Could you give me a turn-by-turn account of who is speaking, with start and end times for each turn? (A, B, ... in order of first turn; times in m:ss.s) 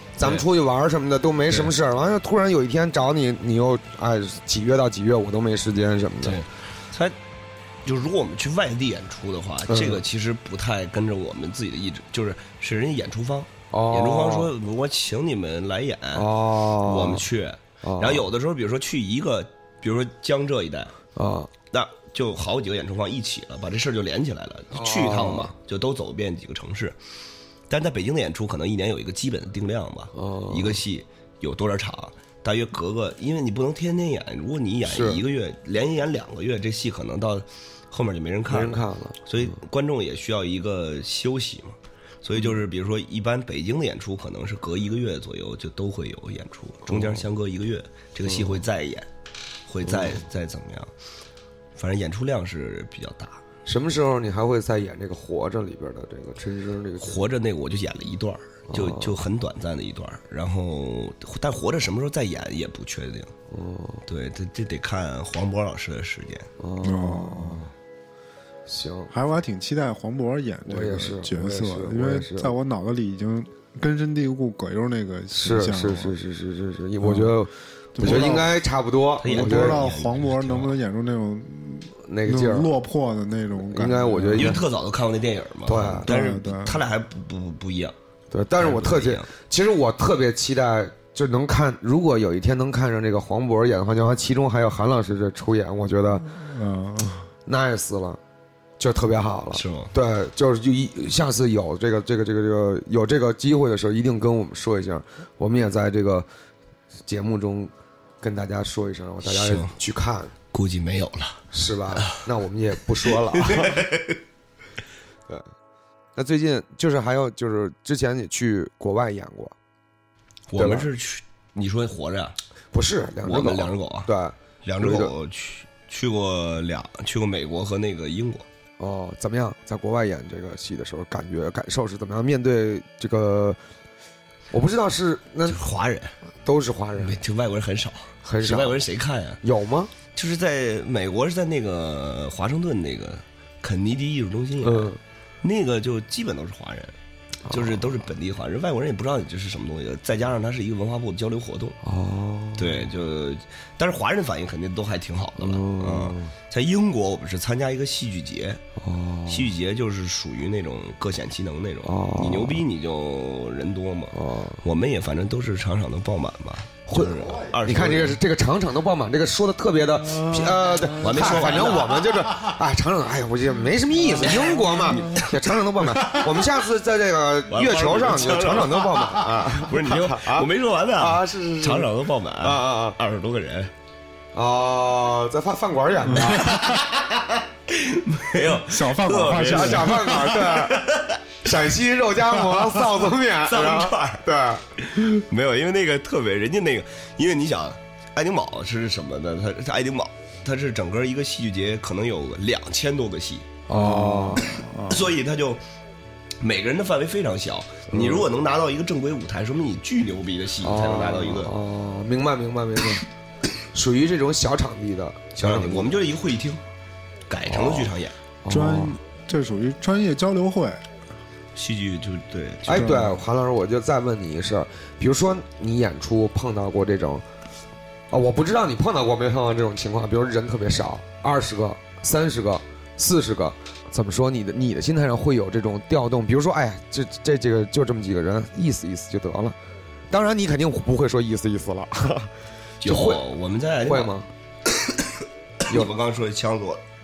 0:00.2-0:06.4 A
0:06.2-0:07.2 B
0:07.8-0:21.0 B
0:09.7-0:10.0 A
0:13.7-0:14.5 A
0:16.1-0:17.2 A
0:17.8-0:18.3 A
0:21.2-0:21.5 A
0:21.7-0:27.0 B
0:24.7-0:25.5 A
0:27.7-0:49.1 B
0:30.1-0:30.8 A
0:34.9-0:35.2 A
0:38.5-0:39.2 A
0:46.9-0:47.2 A
0:48.3-0:48.6 A
0:49.7-0:50.9 B
0:49.9-0:50.2 A
0:51.8-0:53.4 B
0:53.7-0:57.2 A
0:57.0-1:03.3 B
0:58.7-0:59.2 A
1:03.5-1:04.0 A
1:04.1-1:06.5 B
1:06.6-1:07.7 A
1:06.8-1:07.6 C
1:08.7-1:09.1 A
1:09.1-1:16.2 C
1:10.7-1:12.5 A
1:15.3-1:19.8 A
1:17.0-1:17.4 C
1:18.0-1:18.5 C
1:18.1-1:18.3 B
1:19.2-1:20.8 B
1:19.3-1:24.6 C
1:22.1-1:22.7 A
1:23.6-1:24.6 A
1:24.4-1:28.0 B
1:25.7-1:26.1 A
1:26.0-1:26.8 C
1:28.3-1:36.3 A
1:28.6-1:29.3 B
1:36.2-1:37.3 C
1:37.5-1:38.2 A
1:38.8-1:46.3 A
1:39.5-1:39.9 B
1:47.1-1:50.3 A
1:49.2-1:49.7 B
1:50.5-1:51.4 B
1:51.5-1:53.8 A
1:53.3-1:54.2 B
1:56.2-1:59.5 A
2:00.5-2:02.4 B
2:00.6-2:00.9 A
2:02.7-2:05.1 A
2:03.2-2:04.1 B
2:04.6-2:08.5 B
2:08.8-2:13.6 A
2:14.5-2:15.6 A
2:15.5-2:16.2 B
2:16.4-2:17.2 A
2:17.0-2:19.4 B
2:18.2-2:18.8 A
2:19.4-2:19.9 A
2:20.1-2:27.0 B
2:24.6-2:25.0 A
2:27.5-2:27.9 A
2:27.5-2:31.8 B
2:31.8-2:32.9 A
2:32.6-2:38.6 B
2:35.4-2:36.3 A
2:38.8-2:39.5 A
2:39.3-2:48.2 B
2:41.8-2:42.6 A
2:44.1-2:44.6 A
2:46.9-3:03.0 A
2:50.3-2:50.6 C
2:51.0-2:52.1 B
2:54.2-2:55.2 B
2:57.5-3:03.7 B
3:04.3-3:06.7 A
3:06.1-3:06.8 C
3:06.3-3:11.2 B
3:08.6-3:10.2 C
3:09.4-3:10.8 A
3:11.4-3:14.6 A
3:12.5-3:14.2 B
3:14.8-3:23.6 B
3:23.7-3:24.5 A
3:23.7-3:25.0 C
3:24.9-3:25.6 B
3:26.4-3:31.5 B
3:27.9-3:28.3 A
3:30.6-3:33.0 A
3:33.7-3:35.9 A
3:35.4-3:36.6 B
3:37.3-3:38.2 B
3:37.5-3:37.9 A
3:38.4-3:39.0 A
3:38.5-3:40.8 C
3:41.6-3:43.0 B
3:42.7-3:47.2 A
3:42.7-3:43.2 C
3:48.1-3:59.6 A
4:00.1-4:02.3 A
4:02.8-4:03.2 A
4:02.8-4:04.1 B
4:03.9-4:04.3 A
4:04.8-4:05.1 B
4:05.7-4:06.8 B